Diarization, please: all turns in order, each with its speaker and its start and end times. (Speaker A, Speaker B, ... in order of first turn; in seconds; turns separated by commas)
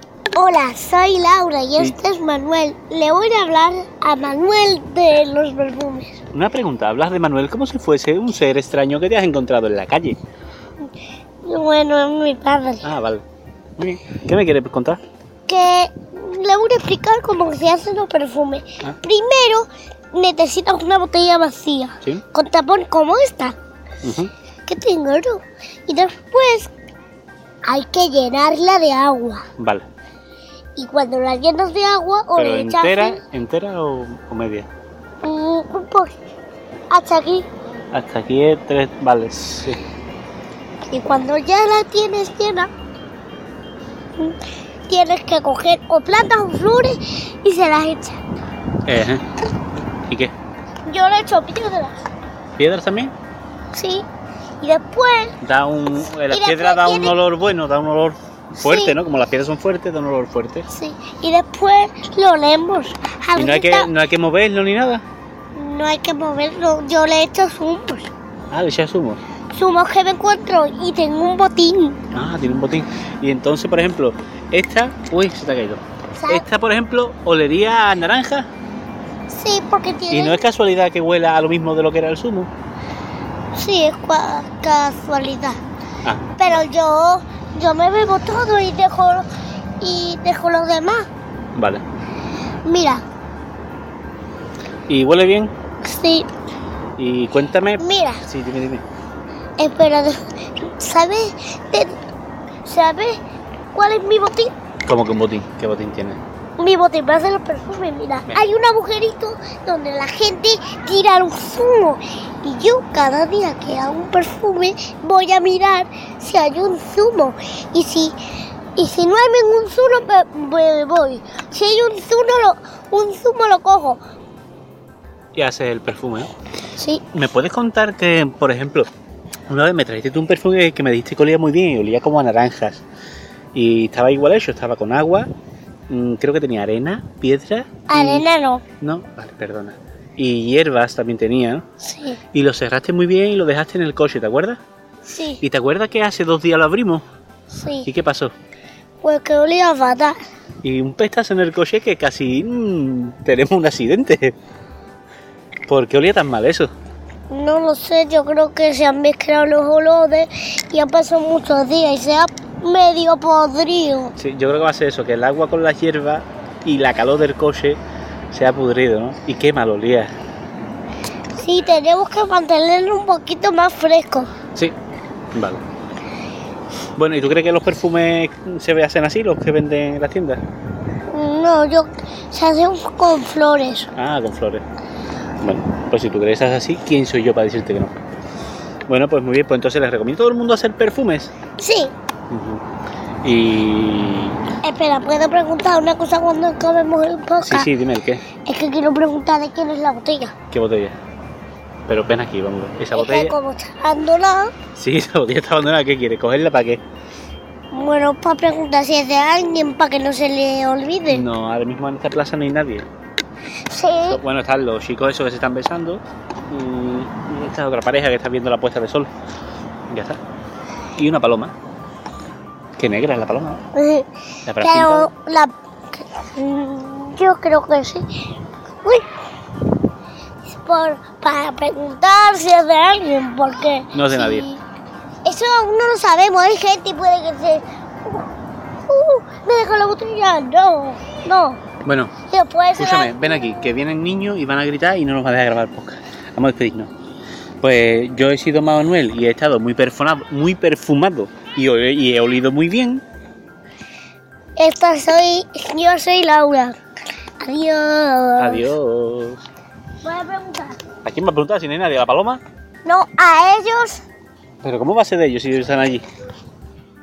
Speaker A: 0.3-6.2, Speaker B: 6.3-10.2, Speaker A: 11.4-12.8, Speaker B: 12.8-13.2, Speaker B: 13.8-15.0, Speaker A: 15.5-23.5, Speaker B: 24.0-24.3, Speaker A: 24.6-26.7, Speaker A: 27.7-29.4, Speaker B: 29.6-29.9, Speaker A: 30.8-33.2, Speaker B: 32.4-34.7, Speaker A: 35.2-36.1, Speaker A: 36.9-37.5, Speaker B: 37.9-39.8, Speaker A: 40.9-42.7, Speaker A: 44.2-48.2, Speaker B: 48.9-49.2, Speaker B: 50.1-50.3, Speaker A: 50.9-52.0, Speaker B: 52.6-53.1, Speaker A: 53.7-54.0, Speaker A: 54.6-55.3, Speaker B: 55.4-60.7, Speaker A: 56.3-57.1, Speaker A: 58.6-59.0, Speaker A: 60.7-63.9, Speaker B: 63.4-65.0, Speaker A: 65.5-68.1, Speaker B: 68.5-69.2, Speaker A: 69.5-72.0, Speaker B: 72.1-78.5, Speaker A: 76.2-76.5, Speaker A: 79.3-80.5, Speaker B: 80.1-82.5, Speaker A: 83.5-85.6, Speaker B: 86.0-86.6, Speaker A: 86.4-89.3, Speaker A: 89.8-91.1, Speaker B: 91.5-91.8, Speaker A: 92.7-93.0, Speaker B: 94.9-95.5, Speaker A: 95.8-96.3, Speaker B: 97.0-98.8, Speaker A: 97.8-98.2, Speaker A: 99.6-102.0, Speaker A: 102.6-103.2, Speaker A: 103.7-104.5, Speaker B: 104.8-106.2, Speaker A: 106.6-118.2, Speaker A: 118.8-124.0, Speaker B: 125.3-126.3, Speaker A: 126.8-127.0, Speaker B: 127.1-128.9, Speaker B: 129.5-132.8, Speaker B: 133.5-135.3, Speaker B: 135.9-138.2, Speaker A: 137.9-138.6, Speaker B: 138.8-141.6, Speaker A: 141.8-142.2, Speaker B: 142.3-144.6, Speaker A: 145.1-145.4, Speaker B: 145.4-147.0, Speaker A: 147.6-147.9, Speaker B: 147.8-148.3, Speaker A: 149.0-150.2, Speaker B: 150.6-154.3, Speaker B: 155.7-156.7, Speaker A: 157.3-164.1, Speaker B: 164.2-167.8, Speaker B: 168.3-170.1, Speaker A: 171.3-174.3, Speaker B: 175.3-175.6, Speaker B: 177.0-180.4, Speaker A: 181.1-183.9, Speaker B: 183.9-184.6, Speaker B: 185.4-187.9, Speaker B: 188.9-191.3, Speaker A: 191.6-191.9, Speaker B: 192.3-192.6, Speaker B: 193.2-194.4, Speaker A: 194.6-197.7, Speaker B: 197.4-198.2, Speaker A: 198.4-200.3, Speaker B: 200.5-201.0, Speaker B: 201.9-203.3, Speaker A: 202.9-204.5, Speaker B: 204.7-206.8, Speaker A: 207.7-211.2, Speaker B: 211.1-212.9, Speaker A: 213.7-214.2, Speaker B: 214.1-219.1, Speaker B: 219.9-220.2, Speaker B: 220.9-221.5, Speaker B: 222.8-223.6, Speaker A: 223.7-229.1, Speaker B: 224.5-225.1, Speaker A: 230.5-234.6, Speaker B: 233.9-234.5, Speaker A: 235.2-238.3, Speaker A: 238.9-241.6, Speaker B: 241.8-242.1, Speaker A: 242.3-243.8, Speaker B: 242.7-246.9, Speaker B: 247.6-253.0, Speaker A: 254.6-256.8, Speaker A: 257.4-258.7, Speaker B: 258.4-259.4, Speaker A: 260.0-260.8, Speaker B: 261.0-262.4, Speaker A: 262.8-264.0, Speaker B: 264.6-266.0